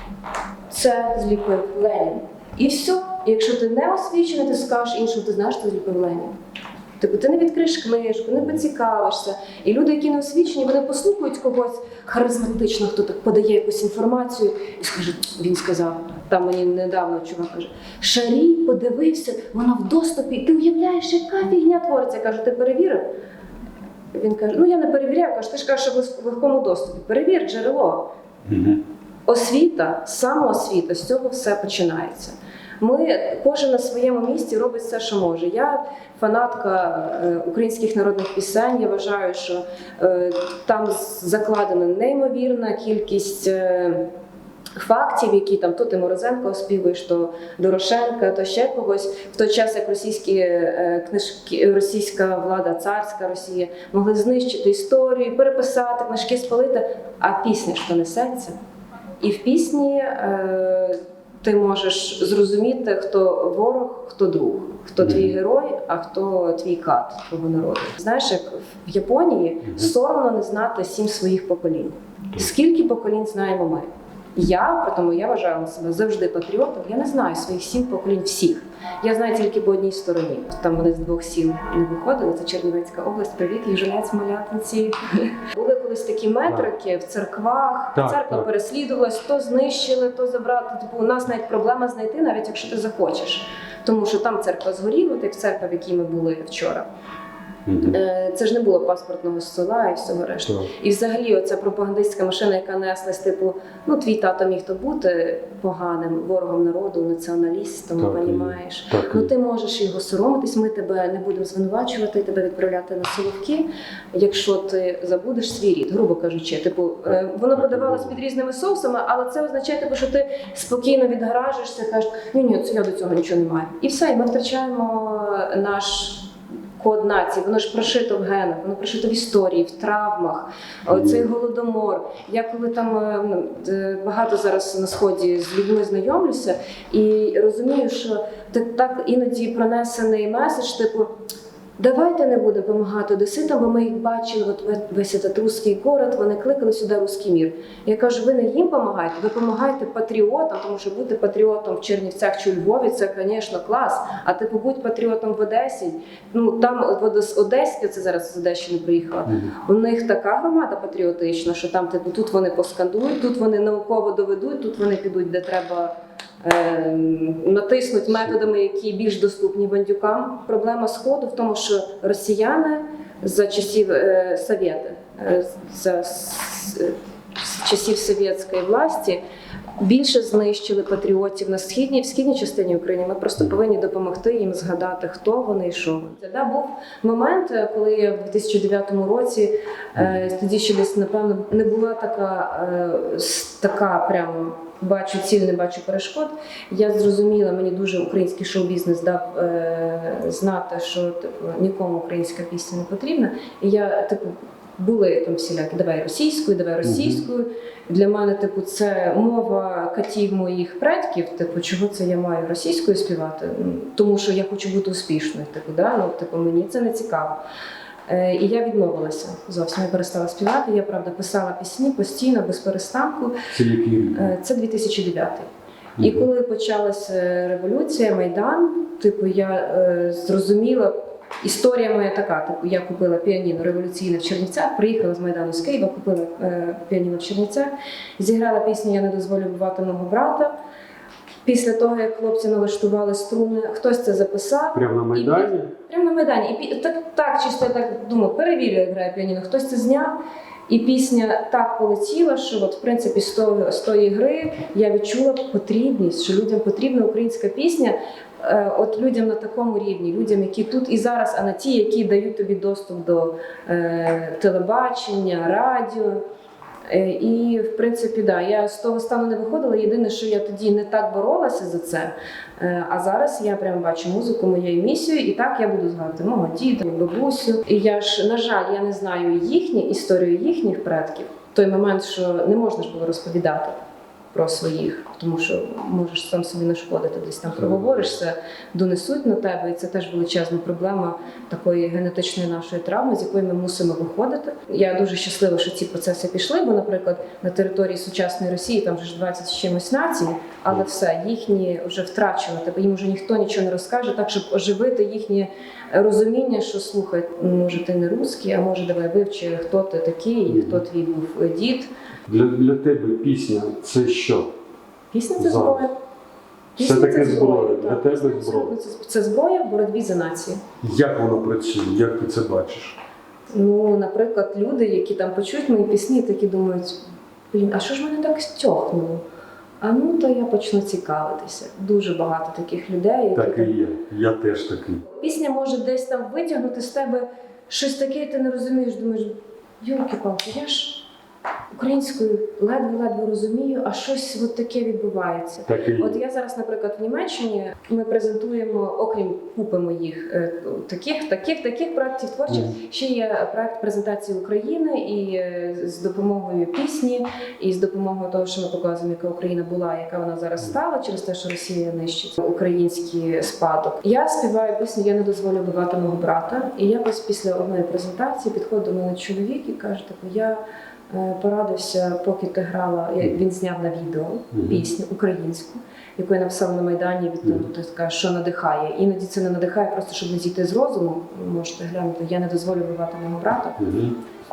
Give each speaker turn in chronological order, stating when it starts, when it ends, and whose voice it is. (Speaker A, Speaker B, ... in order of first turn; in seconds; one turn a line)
Speaker A: 0.7-6.3
Speaker A: 7.0-23.0
Speaker A: 24.1-28.1
Speaker B: 28.5-28.8
Speaker A: 29.3-44.1
Speaker A: 44.8-58.5
Speaker A: 59.2-96.9
Speaker B: 65.0-65.3
Speaker B: 87.9-88.5
Speaker B: 97.7-98.0
Speaker A: 97.8-141.1
Speaker B: 108.0-109.3
Speaker B: 117.5-118.2
Speaker B: 130.9-131.2
Speaker A: 141.8-179.2
Speaker B: 159.2-159.6
Speaker A: 179.8-217.4
Speaker B: 206.8-207.2
Speaker A: 218.1-223.5
Speaker B: 223.5-224.3
Speaker A: 224.1-225.5
Speaker B: 226.0-226.3
Speaker A: 226.0-240.5
Speaker A: 241.4-250.2
Speaker B: 244.7-245.7
Speaker A: 250.7-266.2
Speaker A: 266.9-283.8
Speaker A: 284.3-311.9
Speaker B: 310.5-310.8
Speaker B: 312.3-314.5
Speaker A: 315.1-315.9
Speaker B: 315.4-315.8
Speaker A: 316.8-320.6
Speaker B: 316.8-318.7
Speaker B: 320.8-323.0
Speaker A: 323.5-327.0
Speaker A: 327.5-329.2
Speaker A: 329.8-333.7
Speaker B: 333.3-335.0
Speaker A: 335.1-341.1
Speaker A: 341.7-383.8
Speaker B: 345.6-346.2
Speaker B: 352.5-352.7
Speaker B: 374.5-374.8
Speaker B: 377.4-377.7
Speaker B: 383.8-384.2